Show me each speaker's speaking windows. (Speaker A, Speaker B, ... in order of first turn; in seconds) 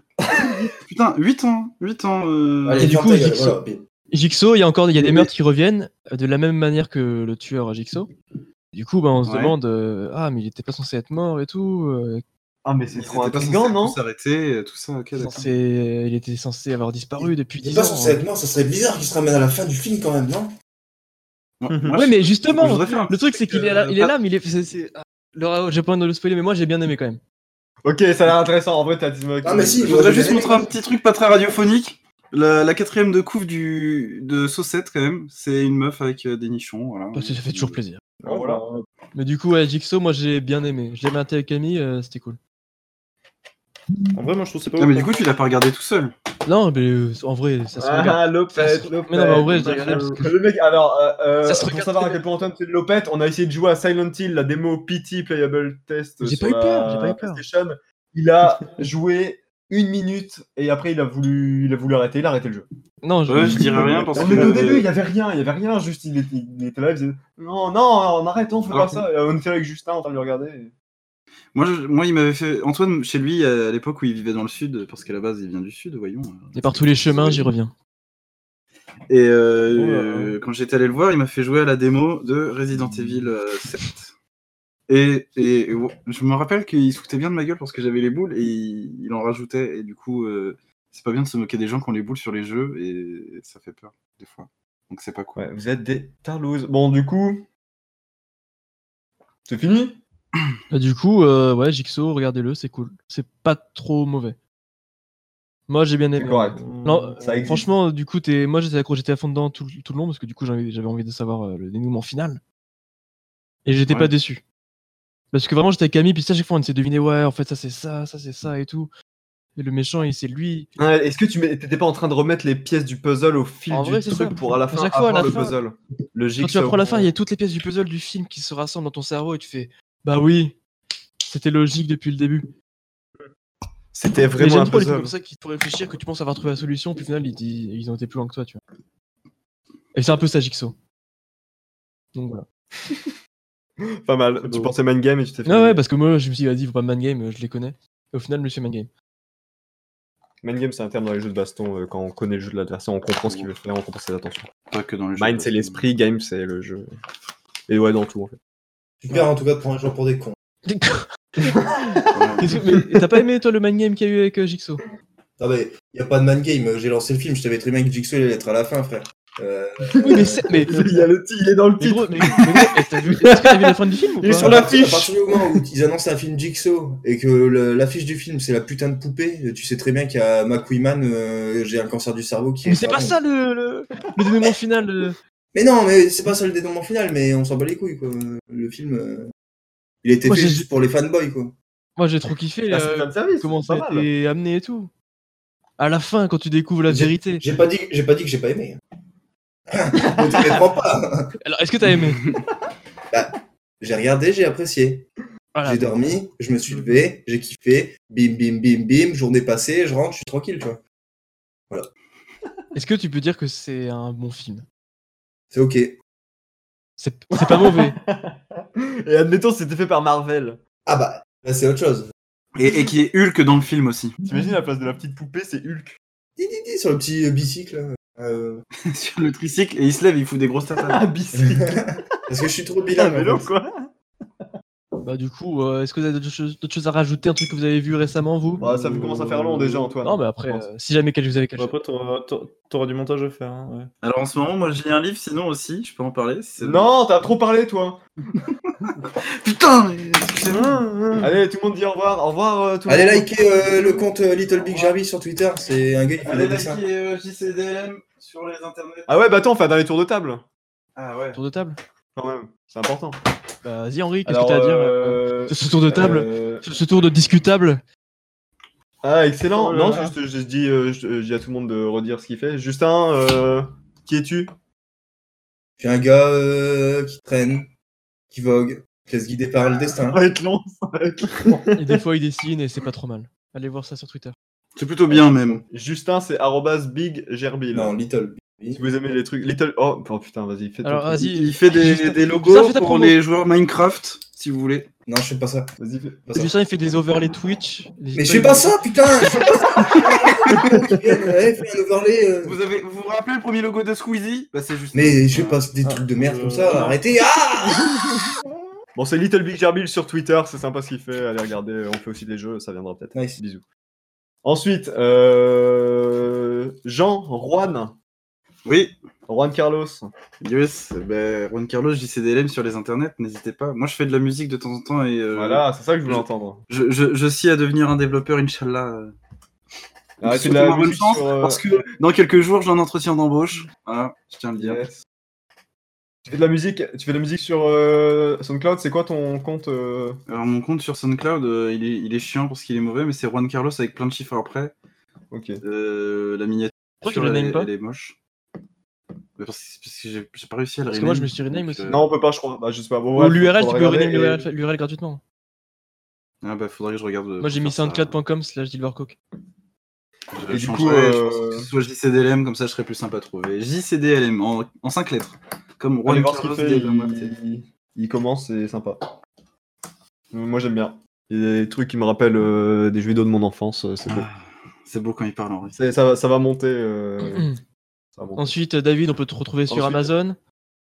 Speaker A: 0.3-0.7, 12.6-14.0, 27.8-30.4, 38.2-38.6, 47.8-62.7, 63.4-70.7, 95.4-97.5, 99.5-100.0, 106.2-106.6, 107.2-107.7, 120.8-127.1, 133.9-135.1, 143.9-145.8, 150.4-154.5, 155.2-156.9, 157.7-158.4, 161.7-162.1, 170.1-175.1, 192.7-194.1, 200.2-200.5, 217.3-220.6, 224.2-226.0, 230.9-232.0, 232.9-233.9, 238.6-240.7, 246.6-248.0, 251.2-253.6, 259.1-260.4, 262.2-263.2, 264.2-266.7, 269.0-274.5, 280.0-282.0, 285.1-288.0, 288.7-291.4, 295.8-296.2, 308.9-313.6, 314.4-318.0, 319.3-320.1, 325.3-326.6, 330.2-331.8, 334.6-335.0, 336.3-340.2, 345.3-345.6, 351.9-354.5, 360.5-361.7, 366.1-369.2, 370.3-374.3, 375.8-377.5, 378.2-378.5, 379.7-380.1
Speaker B: 0.8-2.9, 9.2-9.6, 12.9-15.5, 21.6-24.1, 29.8-37.8, 44.8-46.1, 63.3-64.9, 68.7-69.0, 71.5-77.5, 79.1-84.1, 84.9-95.4, 153.2-153.5, 154.7-155.9, 162.1-162.5, 222.6-224.2, 228.8-231.0, 244.0-246.9, 249.2-250.8, 256.2-259.2, 261.0-261.4, 284.8-285.6, 291.3-294.9, 302.4-305.6, 318.7-319.0, 320.4-329.1, 330.2-334.8, 340.3-344.8, 345.6-348.2, 349.4-352.1, 356.4-358.2, 360.3-367.3, 374.1-375.8
Speaker C: 2.6-3.8, 17.2-20.5, 29.4-30.7, 159.0-160.4, 165.4-170.5, 174.4-183.2, 185.5-189.3, 190.0-191.5, 196.9-198.8, 199.7-201.3, 203.1-205.1, 205.6-210.8, 215.5-216.0, 220.9-222.1, 226.4-228.6, 231.4-233.5, 252.9-256.8, 275.8-277.7, 278.3-280.2, 287.7-288.8, 295.1-295.7, 296.3-296.5, 298.1-302.6, 304.9-308.3, 313.1-313.4
Speaker D: 2.8-3.6, 4.1-8.1, 8.7-12.2, 15.2-18.2, 21.9-27.2, 37.1-38.0, 39.1-42.4, 46.5-50.3, 51.4-52.2, 56.2-57.4, 63.0-64.6, 76.5-77.7, 100.7-104.4, 105.7-112.4, 113.7-114.4, 115.3-118.9, 119.6-120.7, 123.7-125.6, 126.4-130.6, 131.2-132.5, 134.4-138.6, 139.9-140.8, 142.2-142.5, 145.4-148.9, 160.7-164.8, 170.0-170.8, 171.8-174.7, 182.7-185.2, 190.3-190.7, 192.0-194.9, 195.8-197.4, 201.4-202.2, 205.6-205.9, 212.8-214.7, 217.0-218.0, 235.0-238.7, 240.0-241.7, 261.3-261.8, 263.6-267.8, 281.8-284.4, 290.8-293.2, 296.3-298.8, 347.0-347.7, 350.9-352.0, 353.1-355.2, 357.4-359.2, 377.2-377.6, 378.4-380.4
Speaker E: 21.7-22.0, 38.2-38.9, 44.1-45.2, 63.9-64.1, 79.8-80.3, 106.6-107.4, 144.4-144.7, 238.6-239.9, 241.6-243.9, 250.5-251.4, 269.5-270.1, 305.8-307.0